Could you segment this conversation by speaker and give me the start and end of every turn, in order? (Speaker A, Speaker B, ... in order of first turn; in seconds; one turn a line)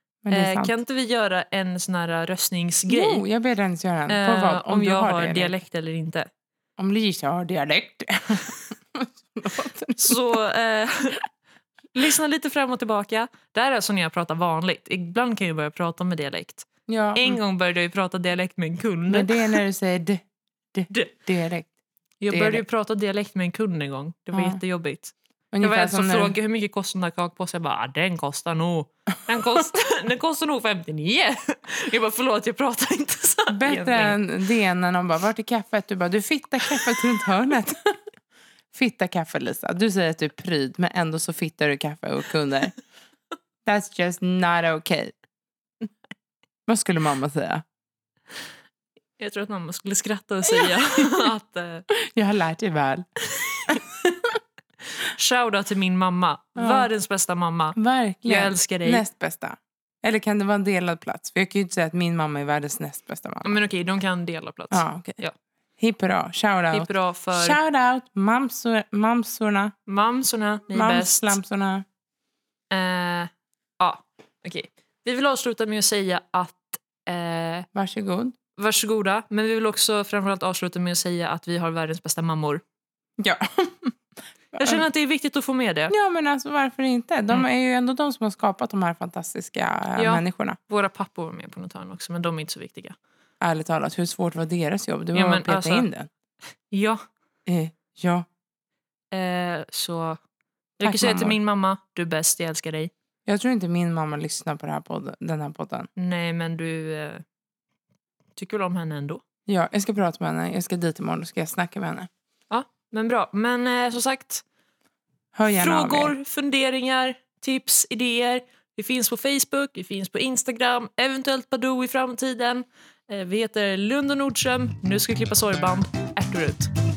Speaker A: 0.2-0.7
Speaker B: 0.3-3.2
Speaker A: 2.9-5.5
Speaker B: 4.1-6.3
Speaker A: 6.8-10.2
Speaker B: 10.0-11.2
Speaker B: 11.9-19.6
Speaker A: 16.9-17.4
Speaker A: 19.1-21.7
Speaker B: 22.2-34.2
Speaker A: 22.3-22.6
Speaker A: 24.3-24.6
Speaker A: 25.5-26.4
Speaker A: 33.5-38.0
Speaker A: 38.7-42.7
Speaker A: 43.6-45.1
Speaker A: 46.7-47.6
Speaker B: 49.2-51.9
Speaker A: 50.5-51.2
Speaker A: 51.9-53.0
Speaker B: 53.2-53.8
Speaker A: 53.7-54.4
Speaker B: 54.9-59.0
Speaker A: 56.5-56.9
Speaker A: 57.8-63.6
Speaker B: 63.4-65.3
Speaker A: 64.7-65.2
Speaker A: 65.8-69.7
Speaker B: 66.7-67.6
Speaker B: 69.9-71.4
Speaker A: 70.7-71.8
Speaker B: 72.7-77.7
Speaker A: 77.7-78.3
Speaker B: 78.6-82.6
Speaker A: 83.2-84.0
Speaker A: 84.5-84.8
Speaker B: 84.5-85.9
Speaker A: 85.9-90.6
Speaker B: 90.0-93.0
Speaker A: 93.4-96.1
Speaker B: 95.1-95.9
Speaker B: 96.7-97.0
Speaker A: 97.5-98.3
Speaker B: 99.1-100.2
Speaker B: 100.8-102.9
Speaker A: 100.8-101.4
Speaker A: 103.2-105.9
Speaker B: 106.0-107.2
Speaker B: 108.3-109.2
Speaker A: 109.5-112.1
Speaker B: 112.5-114.4
Speaker A: 115.3-116.1
Speaker B: 115.5-126.7